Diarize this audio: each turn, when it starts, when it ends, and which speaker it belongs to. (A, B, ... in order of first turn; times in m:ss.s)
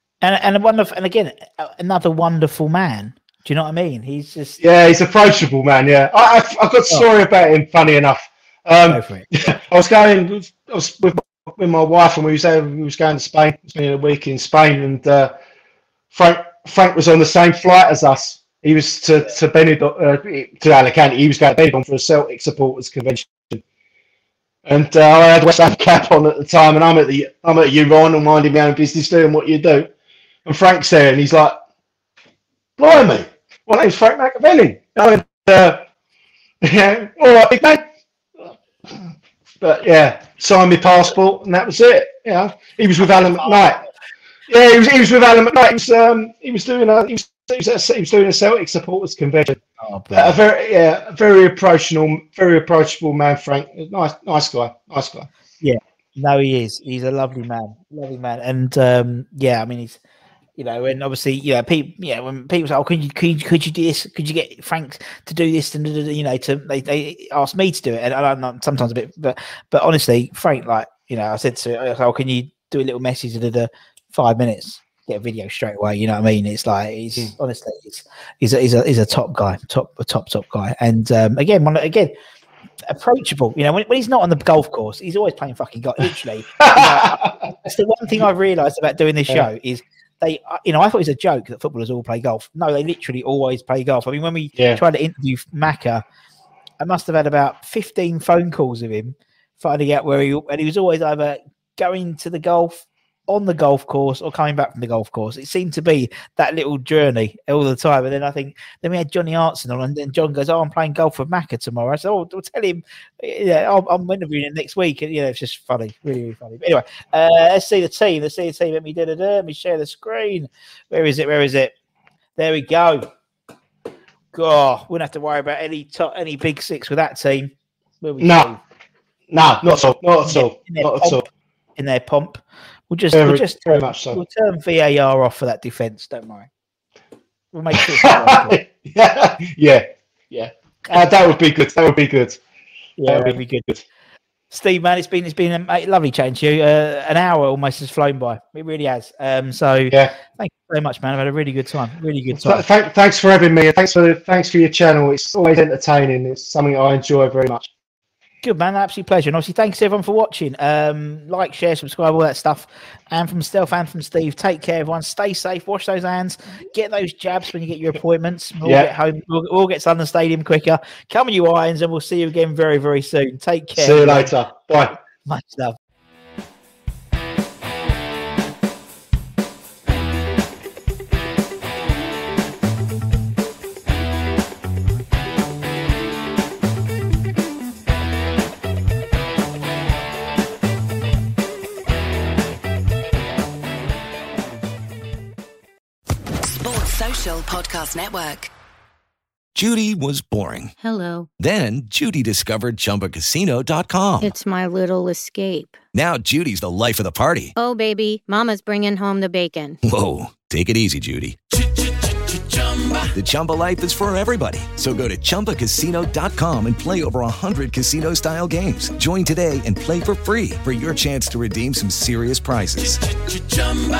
0:00.2-0:04.6 A
0:04.6-0:15.3 B
0:08.9-0:09.5 A
0:16.1-0:23.6 B
0:24.6-0:29.9 B
0:30.4-0:31.6 B
0:32.8-0:35.8 B
0:36.6-0:37.8 B
0:39.6-0:43.8 B
0:43.0-0:43.7 A
0:44.5-0:49.6 B
0:49.8-0:50.4 A
0:50.1-0:55.3 B
0:55.6-1:00.0 A
1:00.6-1:22.1 A
1:22.9-1:36.0 A
1:26.6-1:27.5 B
1:34.6-1:34.8 B
1:36.8-2:01.7 A
2:02.4-2:03.1 A
2:04.3-2:08.6 A
2:08.2-2:08.5 B
2:09.3-2:11.2 B
2:10.3-2:16.5 A
2:13.1-2:14.2 B
2:17.5-2:18.6 A
2:17.7-2:22.4 B
2:23.0-2:23.7 A
2:23.0-2:23.8 B
2:24.5-2:32.6 A
2:32.3-2:37.7 B
2:38.4-2:54.3 A
2:48.6-2:48.9 B
2:53.8-2:54.9 B
2:55.2-2:55.8 A
3:16.5-3:18.5 C
3:19.5-3:20.7 D
3:20.8-3:21.3 E
3:21.4-3:24.3 D
3:24.2-3:25.8 E
3:25.9-3:27.5 D
3:27.5-3:29.8 E
3:29.8-3:31.4 D
3:33.1-3:43.1 D